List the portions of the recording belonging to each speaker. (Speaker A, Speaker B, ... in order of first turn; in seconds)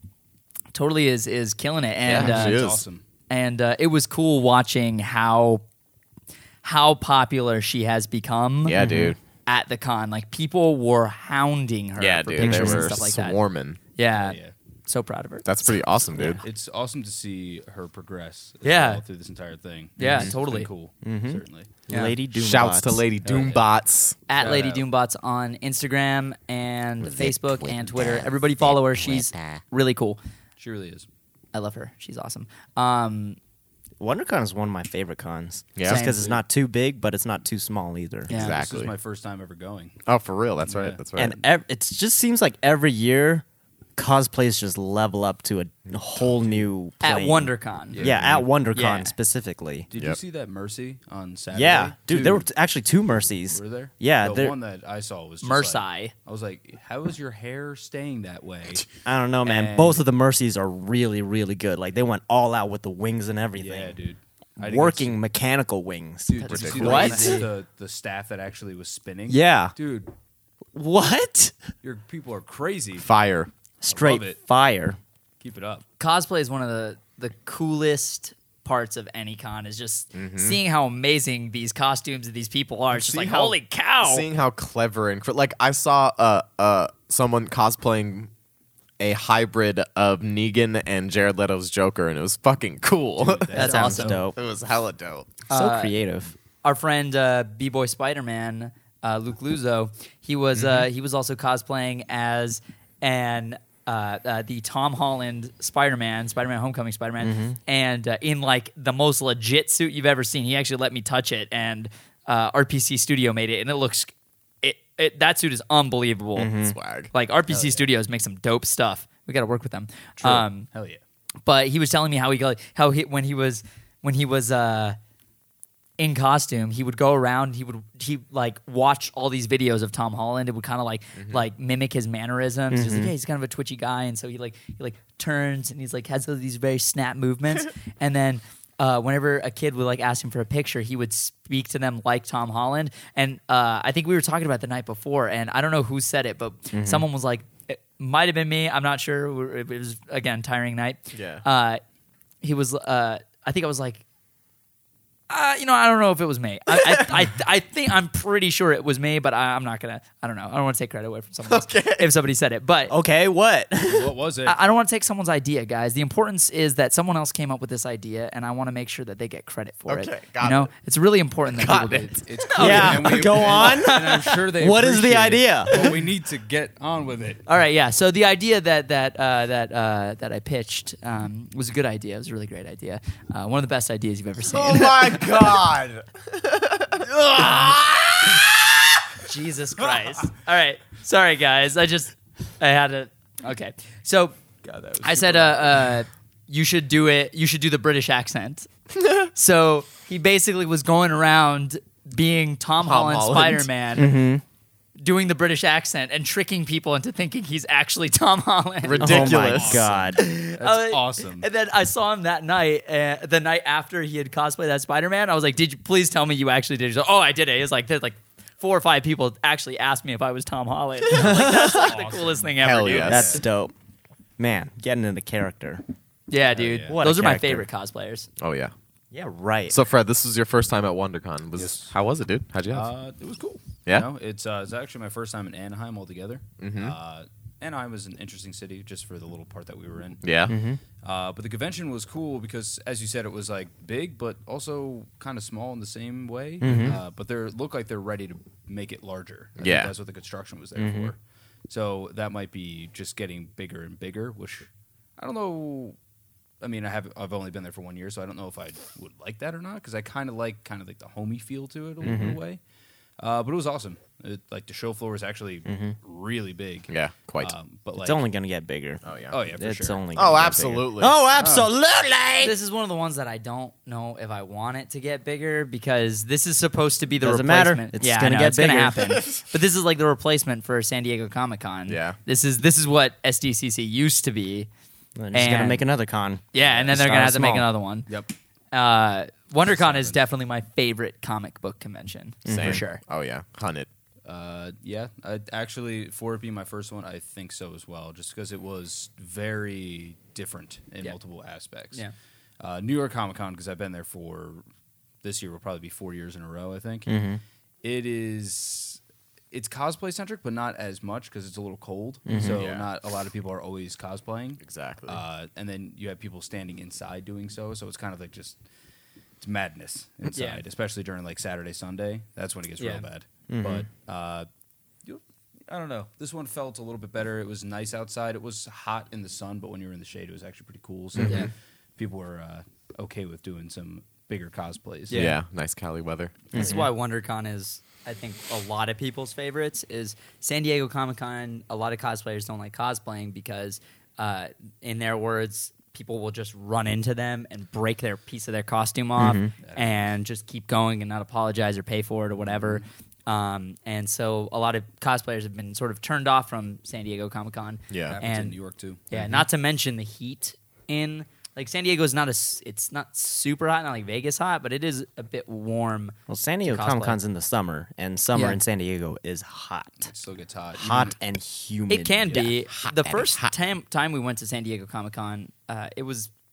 Speaker A: 0.7-2.6, 3.3-5.6, 6.6-8.8, 9.4-13.4, 13.9-15.4, 18.6-19.0, 20.0-20.7, 21.9-22.1, 24.3-30.2, 31.5-33.4, 35.8-36.3, 38.3-38.6, 47.0-48.0, 48.7-49.1, 55.4-56.1, 66.4-67.5, 76.0-84.2, 93.5-94.1, 95.5-95.9, 96.6-116.5, 117.1-120.7, 121.4-125.0, 126.0-151.8, 152.4-154.0, 155.3-162.9, 164.4-174.3, 177.5-185.2, 189.2-194.3, 195.0-198.7, 199.3-204.2, 205.0-209.3, 210.1-223.4, 226.3-228.3, 272.4-284.7, 285.3-285.8, 286.5-288.1, 288.7-293.0, 320.3-320.6, 322.8-323.0, 335.1-335.4, 336.5-358.5, 359.1-367.2, 368.3-368.6, 371.9-376.3
Speaker B: 2.0-2.8, 8.6-9.2, 12.0-13.8, 15.4-16.4, 20.1-20.3, 22.3-24.2, 27.0-29.6, 35.8-36.1, 38.3-38.9, 40.1-41.4, 48.0-48.4, 66.5-67.3, 73.0-73.5, 80.1-80.6, 82.9-88.3, 89.0-95.4, 100.5-100.9, 116.6-117.1, 131.2-131.4, 151.1-151.4, 161.5-162.1, 169.9-170.7, 171.5-172.2, 184.5-189.0, 202.8-203.7, 208.8-209.9, 222.6-223.4, 228.4-228.7, 229.7-232.9, 236.6-236.9, 240.2-240.6, 249.6-249.9, 262.0-262.4, 266.9-267.5, 269.0-269.4, 270.1-271.1, 281.9-282.2, 292.5-293.9, 312.4-312.9, 314.6-315.2, 335.1-336.6, 357.9-358.2, 372.7-373.5
Speaker C: 2.1-3.0, 14.1-14.5, 16.3-21.9, 23.2-23.6, 24.4-24.8, 30.6-31.1, 36.1-36.4, 38.3-40.0, 40.6-41.0, 46.2-46.6, 47.9-48.5, 49.9-52.5, 53.5-58.8, 59.4-60.0, 63.6-65.2, 66.3-70.1, 71.8-73.1, 73.9-74.4, 75.4-75.8, 93.2-94.2, 117.5-117.8, 120.7-121.0, 163.8-164.6, 172.1-177.4, 194.6-195.9, 209.0-211.5, 221.2-223.4, 226.5-227.0, 231.5-231.9, 232.7-240.2, 241.0-251.2, 251.7-254.7, 255.2-255.9, 256.6-262.6, 263.2-268.2, 269.3-270.0, 271.4-271.7, 288.1-288.3, 289.8-290.2, 294.2-302.0, 302.6-304.6, 305.2-307.2, 307.8-309.0, 309.5-318.6, 319.4-324.5, 325.0-335.3, 349.6-350.0, 352.5-352.8, 358.1-359.3, 370.0-371.1
Speaker D: 8.8-9.1, 12.4-12.9, 21.0-23.0, 34.0-38.3, 41.1-43.4, 44.0-49.9, 51.5-54.5, 59.0-64.0, 64.6-67.4, 69.3-69.7, 70.7-71.6, 73.8-75.0, 93.5-94.3, 95.5-96.3, 107.2-107.6, 116.3-116.8, 132.7-133.1, 146.7-147.1, 162.9-164.1, 172.6-175.8, 203.9-204.4, 209.0-210.2, 221.1-221.9, 223.1-223.7, 224.4-225.8, 226.9-227.7, 229.1-229.8, 240.5-240.8, 246.6-247.0, 250.8-251.1, 262.0-262.4, 265.6-265.9, 268.0-272.5, 277.2-279.2, 285.2-287.7, 292.4-292.8, 307.1-307.4, 312.3-312.6, 323.5-323.9, 336.5-336.9, 349.2-349.5, 366.3-370.1, 370.7-372.5